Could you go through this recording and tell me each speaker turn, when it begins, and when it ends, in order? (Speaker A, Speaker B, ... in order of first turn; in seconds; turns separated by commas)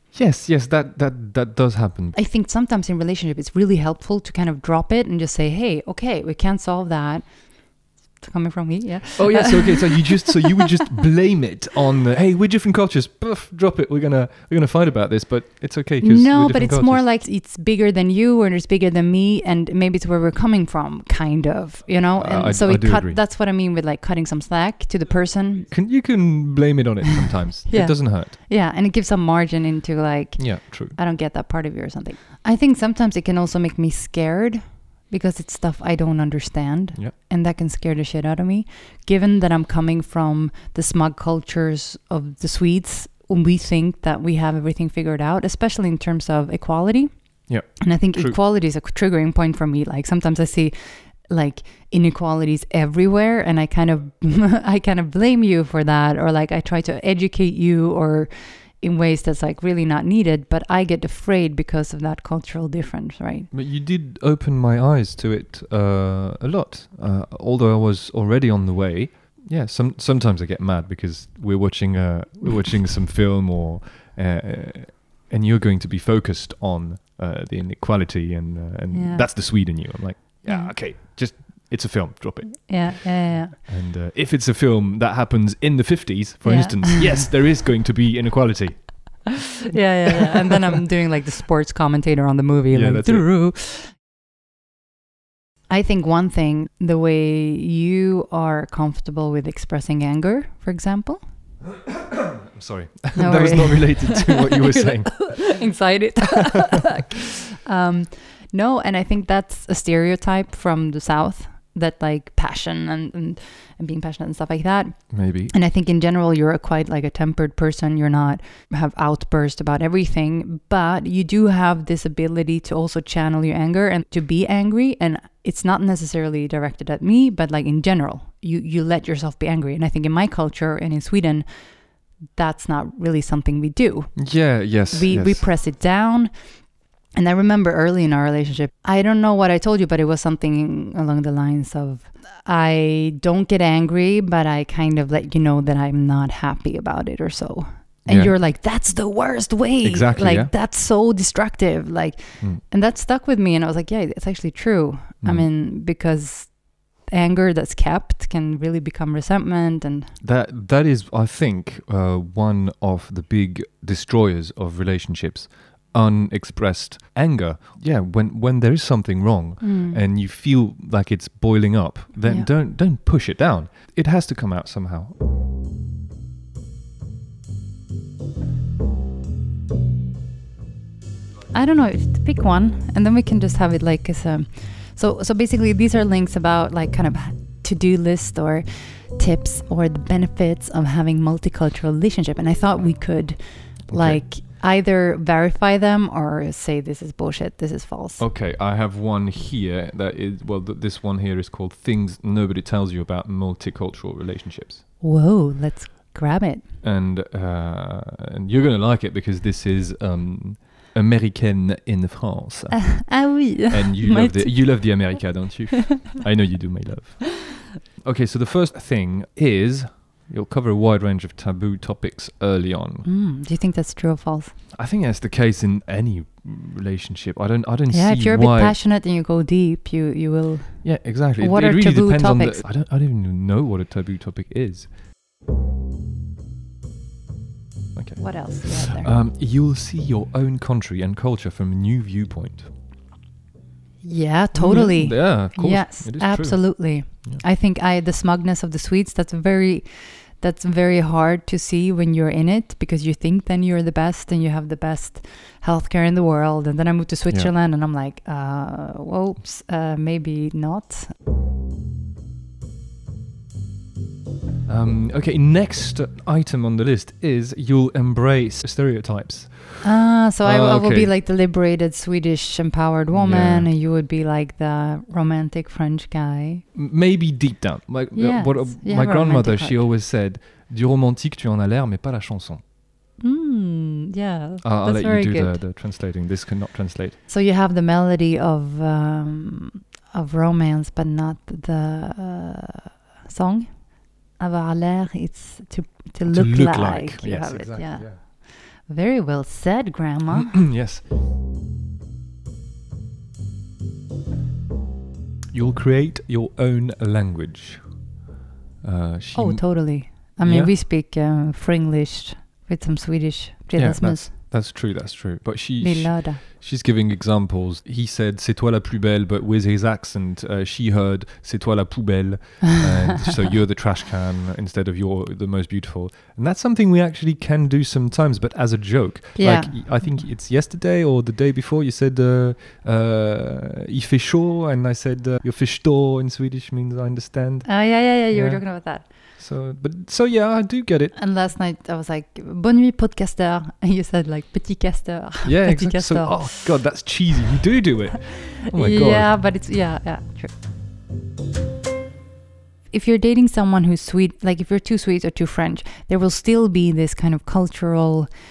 Speaker A: 0.1-2.2, Speaker B: 2.1-10.7, Speaker A: 9.2-17.0, Speaker B: 16.0-25.7, Speaker A: 22.2-23.2, Speaker A: 25.7-28.3, Speaker B: 27.7-47.1, Speaker A: 30.4-31.0, Speaker A: 47.5-48.4, Speaker B: 47.8-63.5, Speaker A: 63.5-89.5, Speaker B: 78.9-79.3, Speaker B: 80.5-80.8, Speaker B: 82.7-83.6, Speaker B: 86.4-87.3, Speaker B: 89.7-93.9, Speaker A: 92.7-93.3, Speaker B: 95.7-101.2, Speaker A: 102.1-105.6, Speaker B: 103.2-131.5, Speaker A: 115.1-115.5, Speaker B: 132.3-136.3, Speaker A: 134.2-135.5, Speaker B: 137.1-160.1, Speaker A: 148.1-148.4, Speaker A: 149.8-150.5, Speaker A: 160.2-175.1, Speaker B: 169.6-170.0, Speaker B: 181.5-198.2, Speaker A: 193.9-194.2, Speaker A: 198.2-204.8, Speaker B: 205.0-206.7, Speaker A: 206.8-223.1, Speaker B: 213.1-215.4, Speaker B: 223.1-224.5, Speaker A: 224.7-228.8, Speaker B: 227.9-232.6, Speaker A: 230.8-234.9, Speaker A: 237.9-242.7, Speaker B: 238.2-239.1, Speaker B: 244.0-261.1, Speaker A: 244.5-247.4, Speaker A: 264.7-271.1, Speaker B: 269.8-276.6, Speaker A: 273.1-273.7, Speaker A: 276.7-282.6, Speaker B: 278.1-279.9, Speaker B: 283.2-285.6, Speaker A: 284.6-287.2, Speaker B: 287.3-300.7, Speaker A: 296.3-298.2, Speaker A: 300.3-301.1, Speaker A: 305.5-307.8, Speaker A: 308.8-310.7, Speaker B: 309.4-314.3, Speaker A: 313.8-341.2, Speaker B: 315.8-316.4, Speaker B: 329.4-330.2, Speaker B: 337.6-339.1, Speaker B: 341.1-346.5, Speaker A: 345.4-349.4, Speaker B: 348.7-350.5, Speaker B: 352.9-358.3